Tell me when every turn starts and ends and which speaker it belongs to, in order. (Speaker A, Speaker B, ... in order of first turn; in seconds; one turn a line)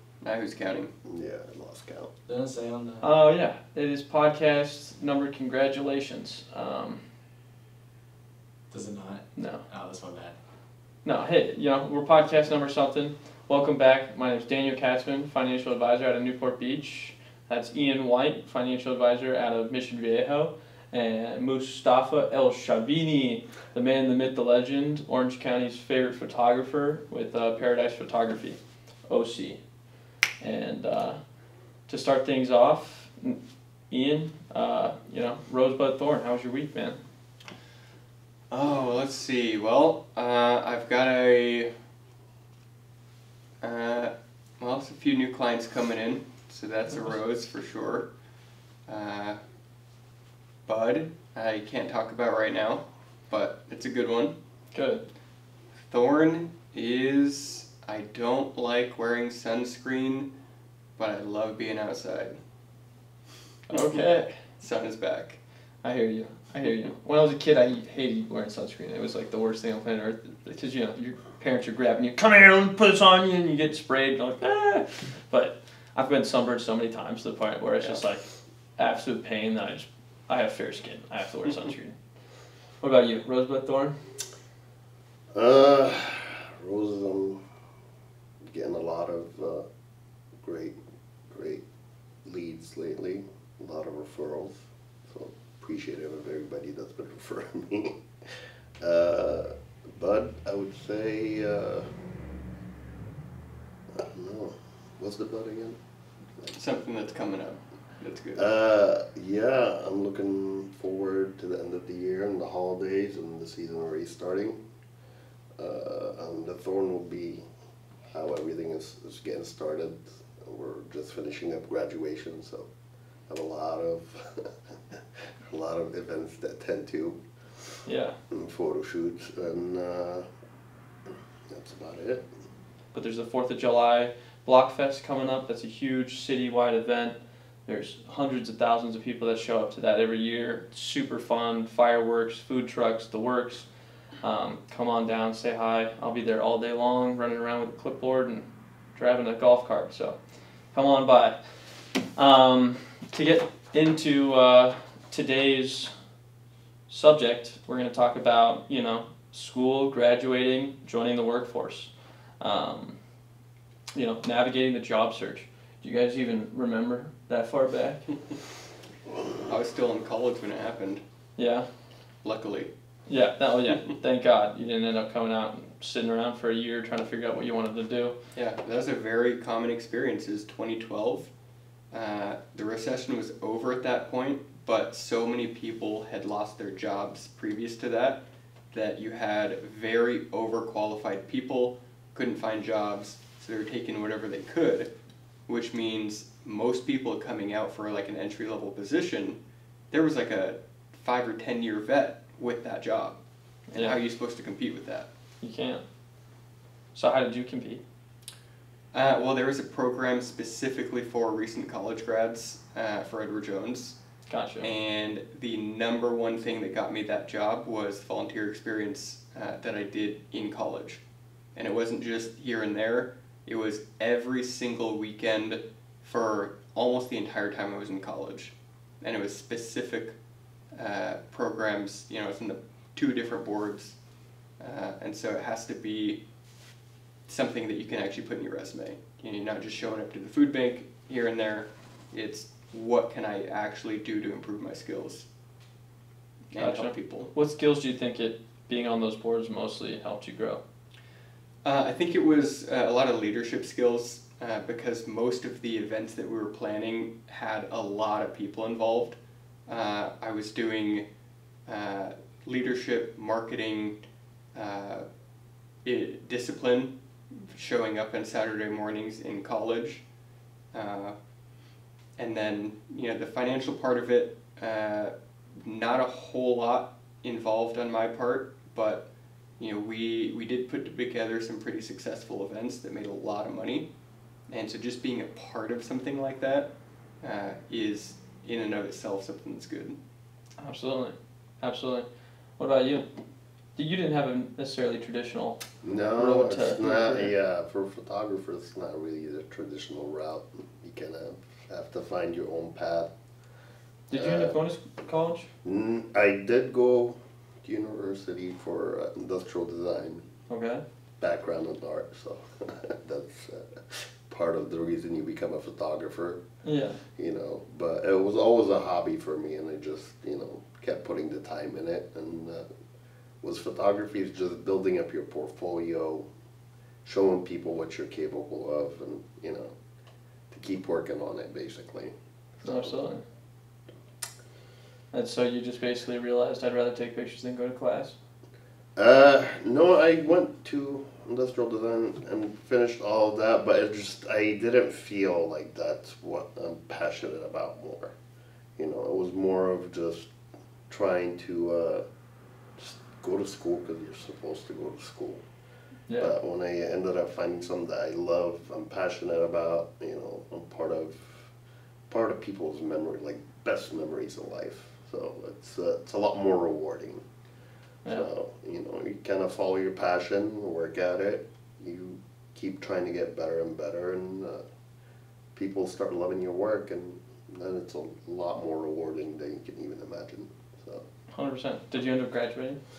Speaker A: 0.2-0.9
Speaker B: 1.0-2.1
Speaker C: 2.3-3.1
Speaker D: 3.0-7.0
Speaker C: 8.7-10.3
Speaker D: 9.3-9.6
Speaker D: 11.0-29.6
Speaker D: 30.4-31.2
Speaker D: 31.9-37.0
Speaker A: 38.5-41.7
Speaker A: 43.6-48.1
Speaker A: 48.9-49.4
Speaker A: 50.6-54.3
Speaker D: 54.7-55.0
Speaker A: 55.9-60.3
Speaker A: 61.0-62.4
Speaker D: 63.7-64.3
Speaker A: 63.7-65.4
Speaker D: 65.8-78.2
Speaker D: 78.8-82.0
Speaker D: 82.8-84.0
Speaker B: 85.3-87.4
Speaker B: 88.5-89.7
Speaker B: 90.4-90.8
Speaker B: 91.3-91.6
Speaker B: 92.2-101.9
Speaker B: 103.9-105.8
Speaker A: 106.5-108.5
Speaker B: 108.3-114.6
Speaker B: 115.6-117.4
Speaker B: 118.1-122.7
Speaker B: 123.3-127.6
Speaker D: 127.8-128.2
Speaker B: 128.3-130.3
Speaker B: 131.5-132.3
Speaker D: 132.9-150.2
Speaker D: 150.7-155.9
Speaker D: 156.9-163.0
Speaker D: 163.9-168.0
Speaker A: 169.4-171.0
Speaker D: 171.4-171.7
Speaker A: 172.2-172.7
Speaker D: 173.1-178.2
Speaker A: 178.3-181.3
Speaker A: 181.9-194.9
Speaker A: 195.5-199.4
Speaker A: 199.9-203.2
Speaker D: 203.7-204.0
Speaker A: 203.7-205.1
Speaker D: 205.4-205.8
Speaker D: 206.9-207.8
Speaker A: 208.9-214.0
Speaker D: 214.3-214.7
Speaker A: 214.6-221.0
Speaker A: 221.5-230.1
Speaker A: 230.7-234.0
Speaker A: 234.6-236.2
Speaker A: 237.3-245.3
Speaker A: 246.5-247.3
Speaker D: 246.6-250.6
Speaker A: 251.6-261.1
Speaker A: 261.7-264.0
Speaker A: 264.5-265.1
Speaker A: 265.8-270.0
Speaker A: 270.7-271.1
Speaker A: 272.2-279.1
Speaker A: 279.6-283.9
Speaker A: 284.5-286.7
Speaker A: 287.2-290.0
Speaker D: 290.6-292.1
Speaker D: 292.6-293.1
Speaker D: 293.8-295.6
Speaker B: 295.8-303.1
Speaker D: 296.1-297.3
Speaker D: 304.1-305.5
Speaker B: 304.1-304.6
Speaker B: 305.6-310.2
Speaker D: 310.5-310.8
Speaker B: 311.2-316.4
Speaker D: 316.6-317.0
Speaker B: 317.1-322.6
Speaker B: 323.4-326.3
Speaker B: 327.0-329.7
Speaker B: 330.5-332.9
Speaker D: 332.6-333.2
Speaker D: 335.1-338.1
Speaker B: 338.9-348.1
Speaker B: 348.8-350.3
Speaker B: 350.9-352.0
Speaker B: 352.8-355.4
Speaker B: 356.2-361.5
Speaker B: 362.1-367.2
Speaker B: 368.1-374.6
Speaker B: 375.5-381.1
Speaker D: 381.3-382.8